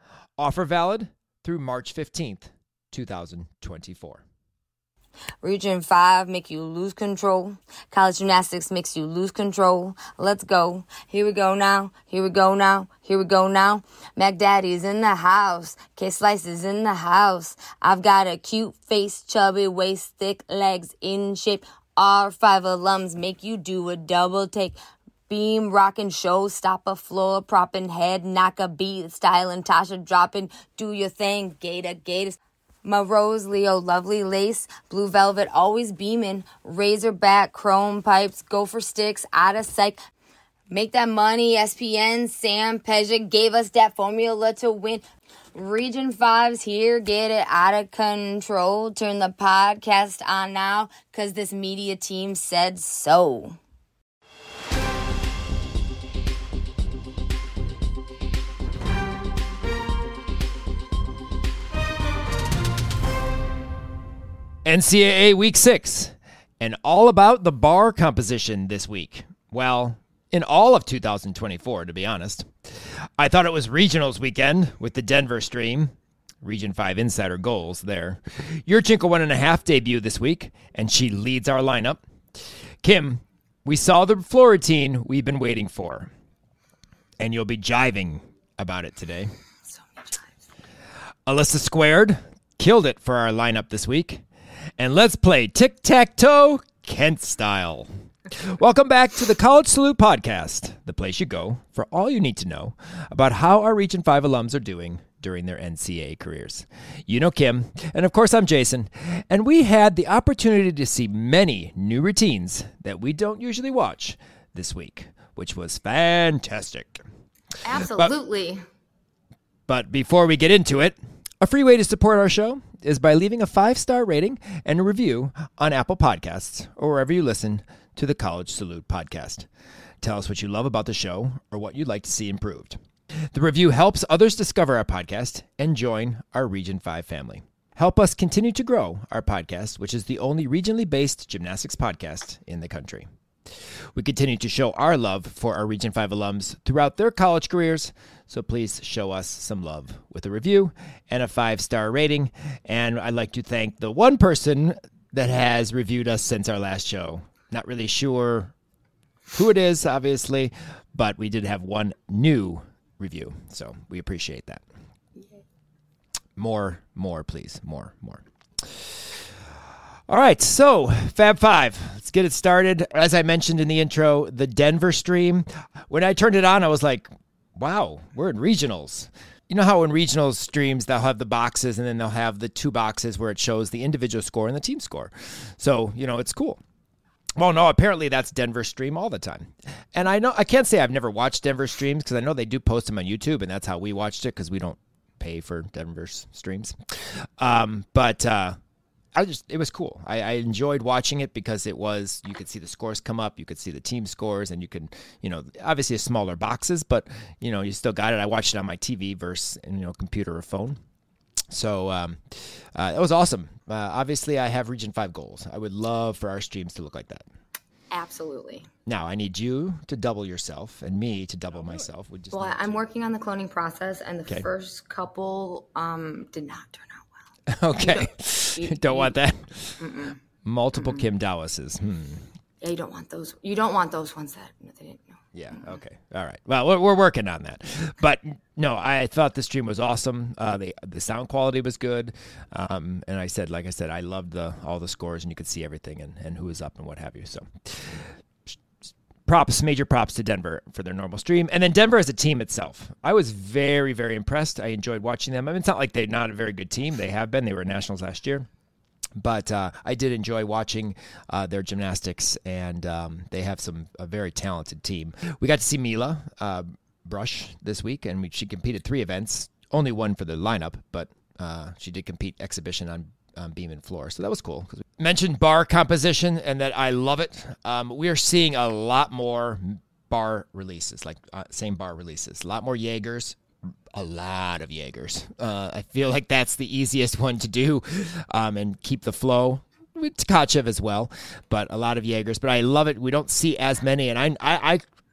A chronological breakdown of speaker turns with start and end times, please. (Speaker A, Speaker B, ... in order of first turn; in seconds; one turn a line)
Speaker A: 0.4-4.2
Speaker B: 5.4-24.8
Speaker B: 25.3-40.0
Speaker B: 40.7-53.6
Speaker A: 64.7-82.0
Speaker A: 82.8-86.1
Speaker A: 87.2-89.3
Speaker B: 89.7-90.5
Speaker A: 91.3-94.2
Speaker A: 94.8-117.0
Speaker B: 117.6-118.6
Speaker A: 119.7-129.5
Speaker A: 130.0-132.8
Speaker A: 133.3-143.1
Speaker A: 143.9-158.5
Speaker A: 159.3-164.6
Speaker A: 166.4-169.2
Speaker A: 170.1-186.6
Speaker A: 187.4-198.6
Speaker A: 199.2-210.8
Speaker A: 211.5-217.2
Speaker B: 217.9-218.7
Speaker A: 218.9-222.8
Speaker B: 222.3-227.1
Speaker A: 227.5-229.8
Speaker B: 227.7-229.2
Speaker B: 229.8-230.2
Speaker A: 230.4-232.3
Speaker B: 232.6-235.8
Speaker A: 235.3-248.6
Speaker A: 249.3-258.5
Speaker A: 259.2-283.4
Speaker A: 283.9-294.8